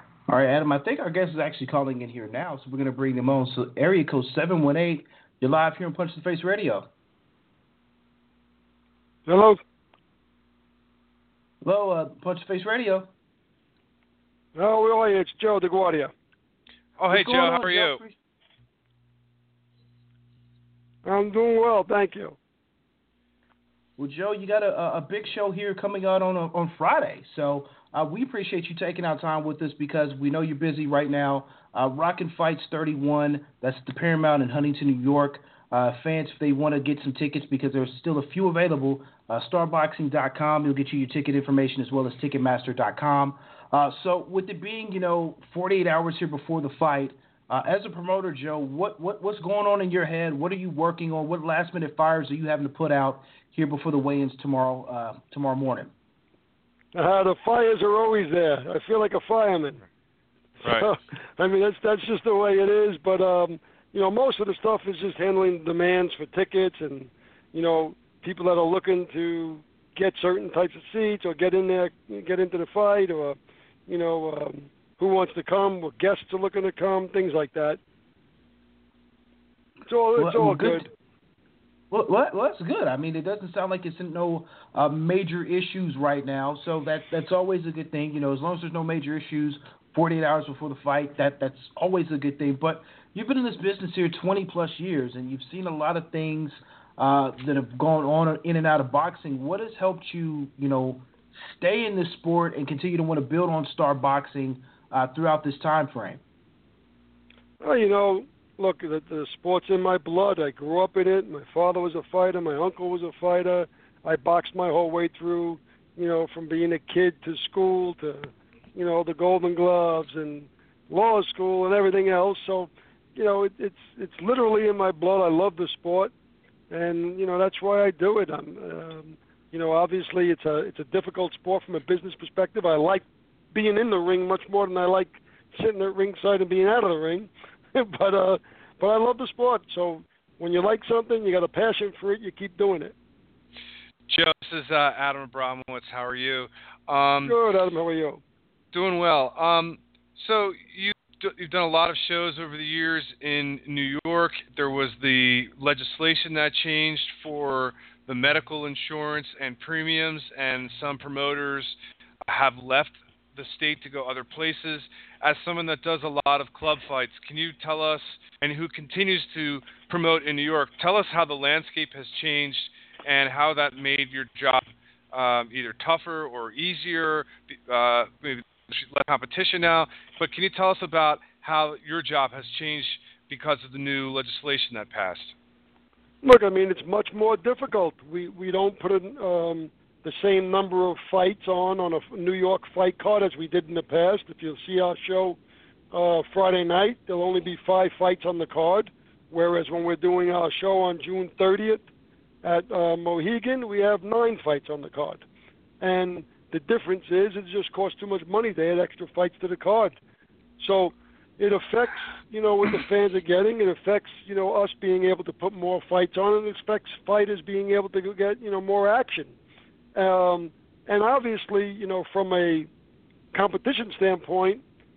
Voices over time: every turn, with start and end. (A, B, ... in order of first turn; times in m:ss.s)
0:00.3-0:06.9 A
0:09.2-0:09.6 B
0:11.6-0:13.1 A
0:14.6-0:16.1 B
0:17.0-0:18.0 C
0:17.1-0:18.2 A
0:21.0-0:22.4 B
0:24.0-0:55.9 A
0:56.9-0:59.8 B
1:00.6-1:00.9 C
1:00.6-1:17.8 B
1:19.9-1:20.9 B
1:20.2-1:20.9 A
1:21.9-1:46.2 A
1:47.6-2:06.1 B
2:06.7-2:22.9 B
2:24.1-2:27.4 C
2:27.2-2:28.2 B
2:28.7-2:41.8 C
2:42.3-3:05.3 C
3:06.2-3:15.4 B
3:15.9-3:21.8 B
3:22.4-3:25.2 B
3:25.8-3:30.0 B
3:30.6-3:39.3 B
3:39.9-3:42.7 B
3:43.3-3:44.6 B